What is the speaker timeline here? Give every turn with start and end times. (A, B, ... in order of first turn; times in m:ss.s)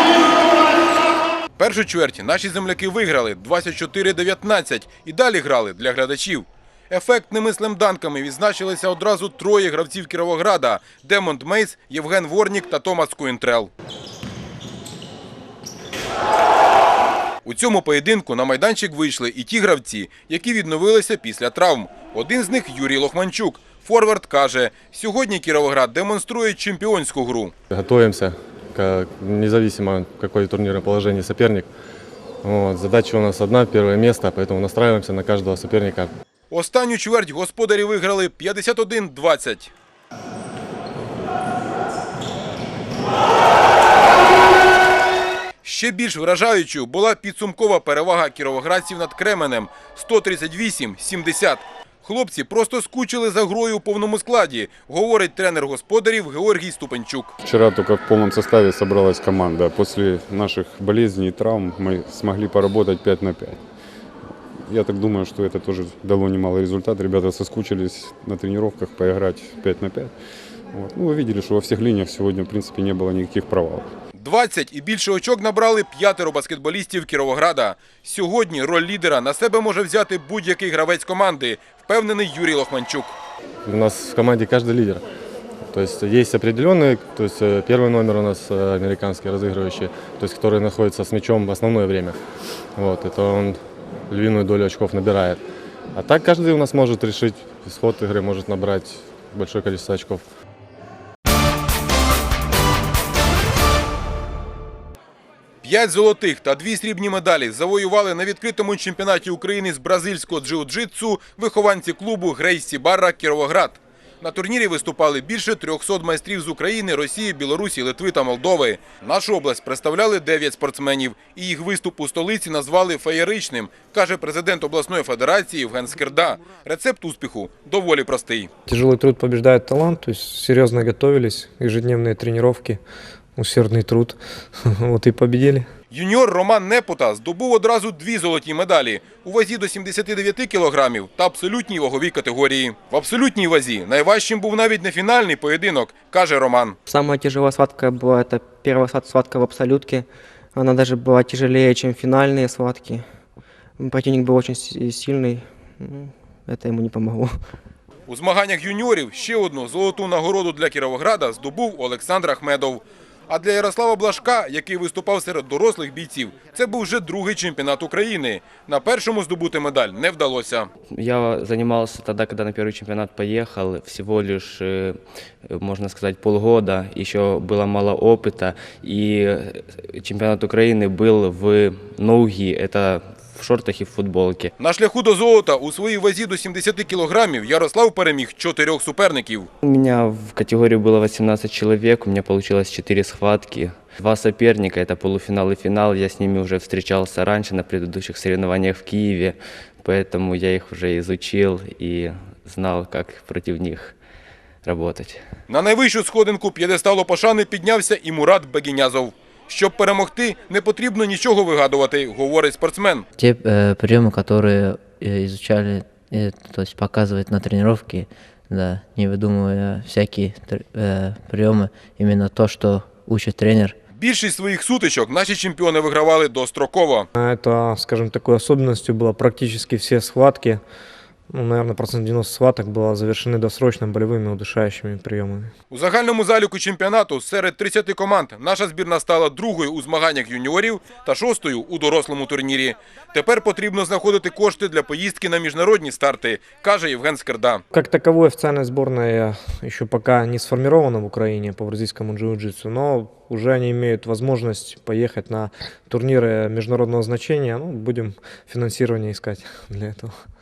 0:01.6-0:13.7 A
0:17.4-0:27.5 A
0:27.7-0:31.7 B
0:32.4-0:36.1 B
0:36.5-0:39.7 A
0:45.6-0:57.3 A
0:57.4-1:03.6 C
1:04.7-1:10.1 C
1:10.7-1:13.9 C
1:14.2-1:23.2 A
1:23.6-1:25.0 B
1:25.7-1:32.2 B
1:32.8-1:35.4 B
1:35.9-1:40.2 B
1:45.6-2:08.5 A
2:08.7-2:12.8 D
2:13.4-2:14.2 D
2:14.7-2:15.7 D
2:15.9-2:26.8 A
2:26.9-2:29.9 E
2:30.6-2:32.8 E
2:38.1-2:50.7 A
2:50.9-3:04.5 F
3:04.6-3:09.5 A
3:09.6-3:24.0 F
3:24.6-3:25.2 F
3:25.5-3:33.0 A
3:33.2-3:43.8 G
3:44.0-3:47.1 A
3:47.2-3:50.6 D
3:51.3-3:55.5 D
3:55.7-4:07.6 A
4:07.7-4:20.1 D